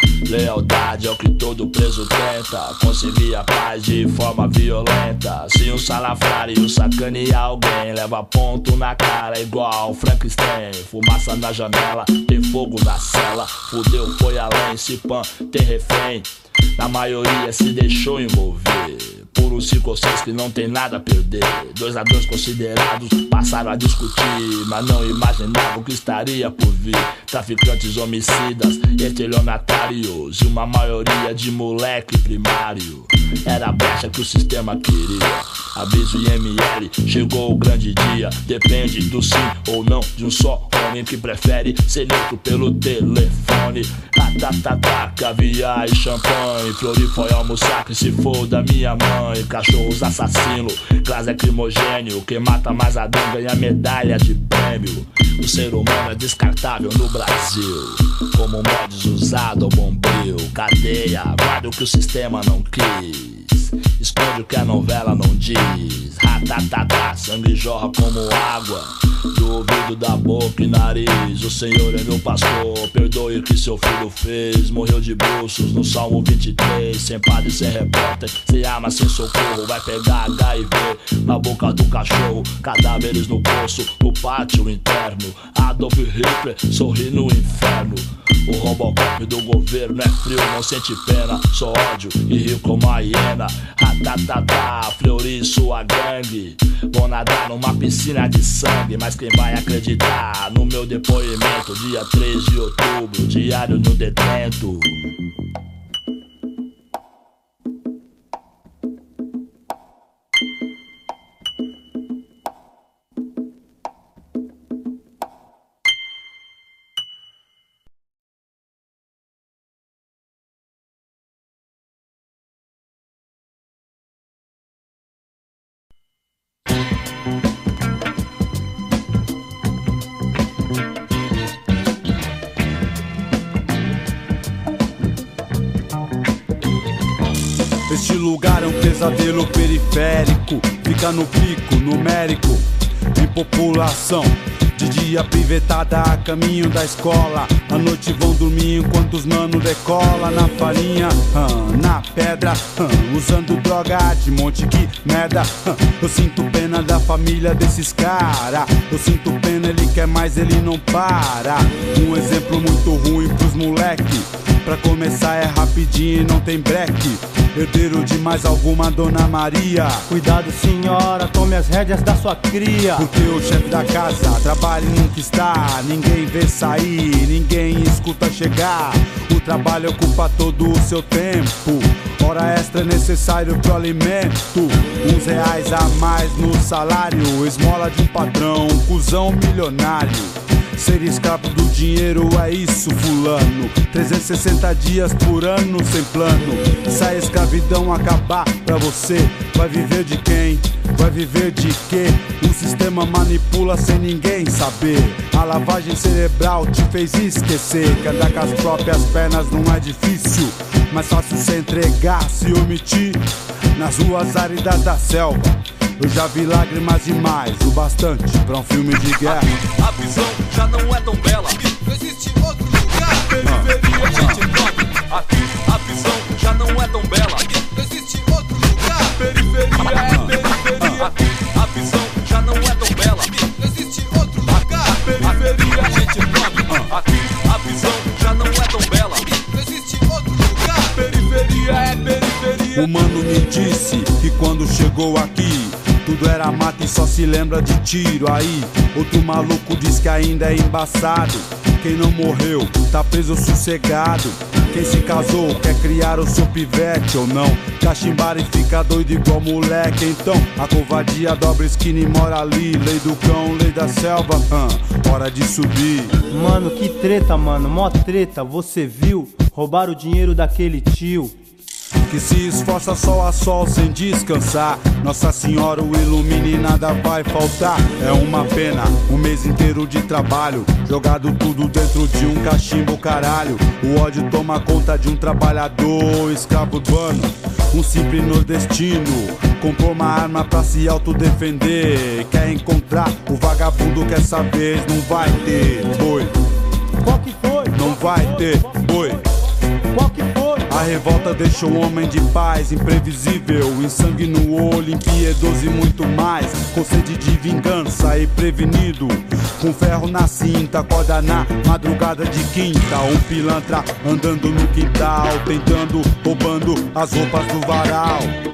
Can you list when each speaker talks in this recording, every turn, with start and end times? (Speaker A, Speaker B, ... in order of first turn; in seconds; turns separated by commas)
Speaker A: 0.2-105.1, Speaker B: 137.9-170.1, Speaker C: 170.1-173.1, Speaker B: 172.9-219.6, Speaker D: 219.2-242.8, Speaker B: 223.4-224.4, Speaker B: 230.0-231.1, Speaker B: 242.7-266.2, Speaker C: 266.3-271.4, Speaker B: 272.0-296.3, Speaker C: 297.0-299.2, Speaker B: 297.7-299.2, Speaker C: 299.9-300.8, Speaker B: 300.7-318.3